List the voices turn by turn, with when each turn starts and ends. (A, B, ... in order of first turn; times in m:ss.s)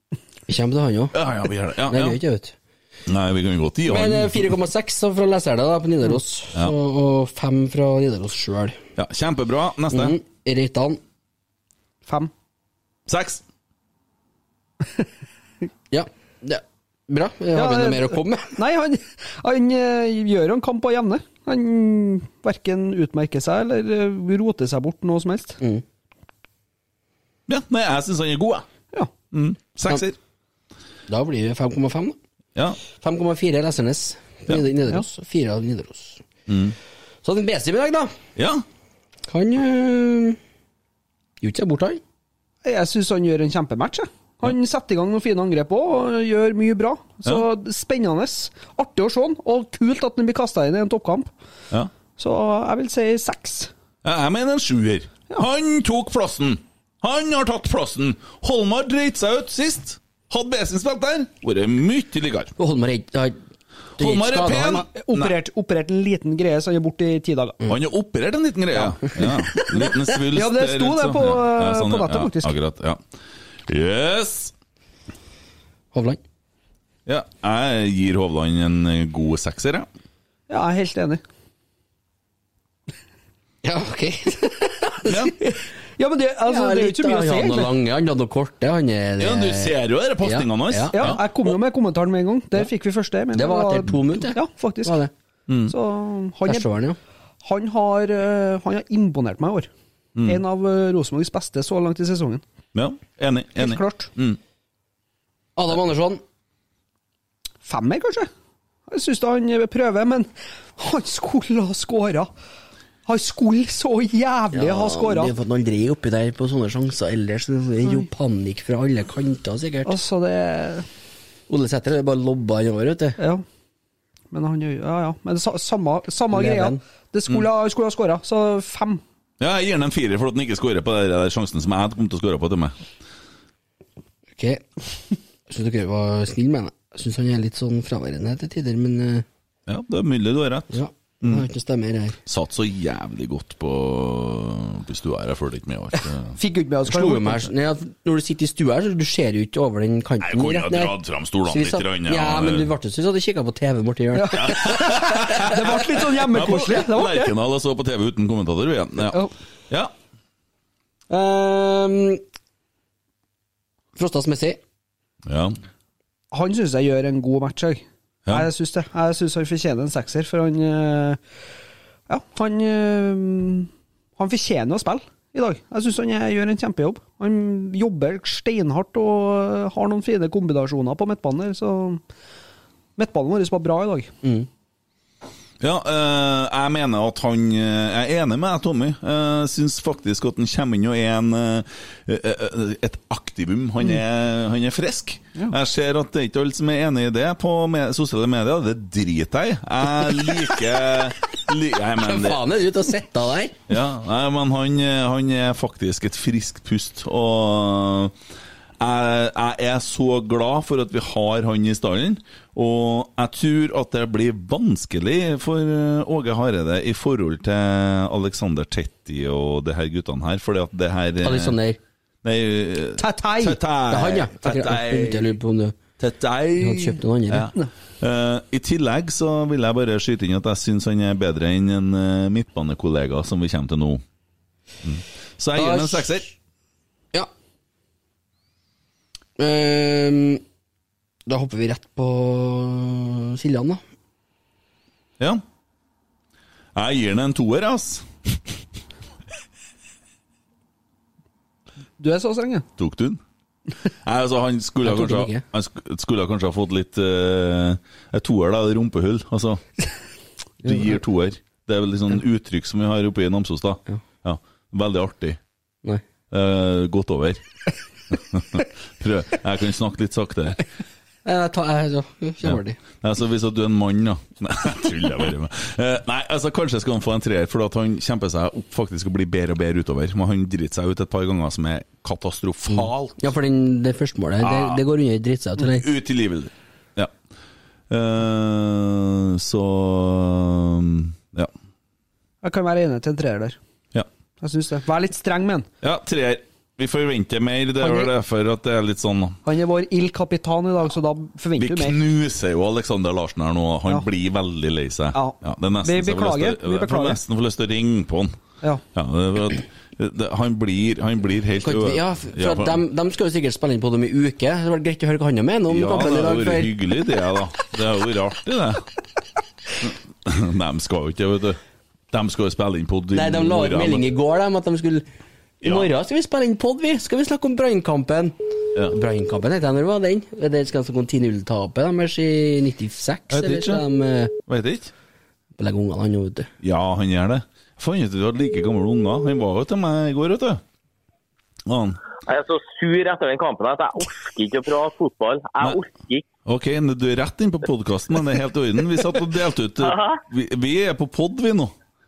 0:00.5-0:01.2 A
0:01.1-0:02.2 B
0:01.9-0:02.6 A
0:03.1-0:04.6 B
0:03.9-0:08.8 A
0:09.0-0:10.2 B
0:09.9-0:11.0 A
0:12.1-0:12.3 C
0:13.1-0:13.4 B
0:15.9-0:18.6 A
0:17.5-0:25.6 C
0:27.5-0:28.7 B
0:29.3-0:30.2 B
0:31.1-0:32.2 A
0:33.0-0:36.2 A
0:36.5-0:36.8 B
0:37.2-0:38.1 A
0:38.4-0:38.6 B
0:39.3-0:40.4 A
0:41.4-0:42.0 A
0:42.6-0:51.3 C
0:52.2-0:53.7 C
0:54.0-1:02.5 B
1:02.6-1:03.4 A
1:04.0-1:04.9 A
1:04.0-1:05.4 B
1:04.5-1:07.6 C
1:07.7-1:13.0 B
1:10.3-1:12.5 C
1:13.7-1:14.5 B
1:15.9-1:16.2 A
1:17.1-1:19.9 B
1:20.5-1:21.2 C
1:23.6-1:25.3 A
1:25.1-1:25.3 B
1:26.0-1:27.7 C
1:26.5-1:31.2 A
1:29.2-1:31.5 B
1:30.9-1:35.0 C
1:33.3-1:35.1 A
1:35.5-1:35.7 B
1:35.7-1:36.7 C
1:36.4-1:37.0 A
1:37.4-1:39.7 C
1:40.2-1:40.4 B
1:40.2-1:42.4 C
1:42.8-1:44.4 B
1:43.6-1:44.1 C
1:45.6-1:46.2 A
1:47.6-1:48.3 C
1:48.9-1:52.3 C
1:53.1-1:55.3 C
1:54.5-2:00.0 A
1:59.8-2:00.9 C
2:01.5-2:03.2 A
2:03.2-2:03.4 C
2:04.3-2:09.0 C
2:06.3-2:06.8 A
2:09.4-2:12.8 B
2:14.4-2:14.7 A
2:15.5-2:19.2 A
2:19.7-2:21.5 B
2:20.7-2:22.2 A
2:22.3-2:26.4 B
2:26.4-2:27.5 C
2:26.9-2:31.0 A
2:30.2-2:32.7 B
2:31.5-2:35.5 A
2:34.1-2:37.3 C
2:34.3-2:39.9 B
2:41.1-2:42.2 A
2:44.0-2:44.6 A
2:45.3-2:45.6 B
2:46.3-2:51.2 C
2:52.1-3:02.0 C
3:03.0-3:04.1 C
3:05.6-3:22.4 B
3:22.0-3:23.6 A
3:23.7-3:28.1 B
3:28.8-3:41.6 B
3:41.2-3:41.8 A
3:42.2-3:45.4 B
3:43.0-3:43.6 C
3:43.9-3:45.8 A
3:46.0-3:54.0 B
3:46.6-3:47.5 A
3:54.8-3:56.3 B
3:55.6-3:56.2 A
3:59.4-4:00.4 A
4:01.3-4:03.8 A
4:06.8-4:08.4 B
4:12.0-4:12.7 C
4:12.8-4:13.2 B
4:14.0-4:19.6 B
4:14.8-4:15.4 A
4:20.6-4:25.4 B
4:26.3-4:27.4 B
4:28.1-4:30.6 B
4:31.2-4:32.8 A
4:32.4-4:43.3 B
4:43.2-4:45.9 A
4:44.4-4:44.8 B
4:45.7-4:47.1 B
4:47.9-4:51.5 B
4:52.4-4:53.6 C
4:54.4-4:55.7 C
4:55.8-4:59.4 B
4:57.8-4:58.1 C
4:59.4-5:02.0 C
5:01.6-5:08.4 B
5:05.1-5:07.2 C
5:08.9-5:12.8 B
5:11.6-5:16.7 A
5:15.7-5:18.8 B
5:19.8-5:21.6 B
5:22.1-5:24.1 B
5:23.1-5:25.1 A
5:25.6-5:28.4 A
5:25.6-5:25.9 B
5:28.9-5:34.3 A
5:33.3-5:33.8 B
5:34.5-5:34.9 B
5:35.6-5:36.5 A
5:36.6-5:40.6 B
5:41.7-5:42.0 B
5:42.3-5:46.3 D
5:46.5-5:51.7 B
5:49.8-5:50.2 D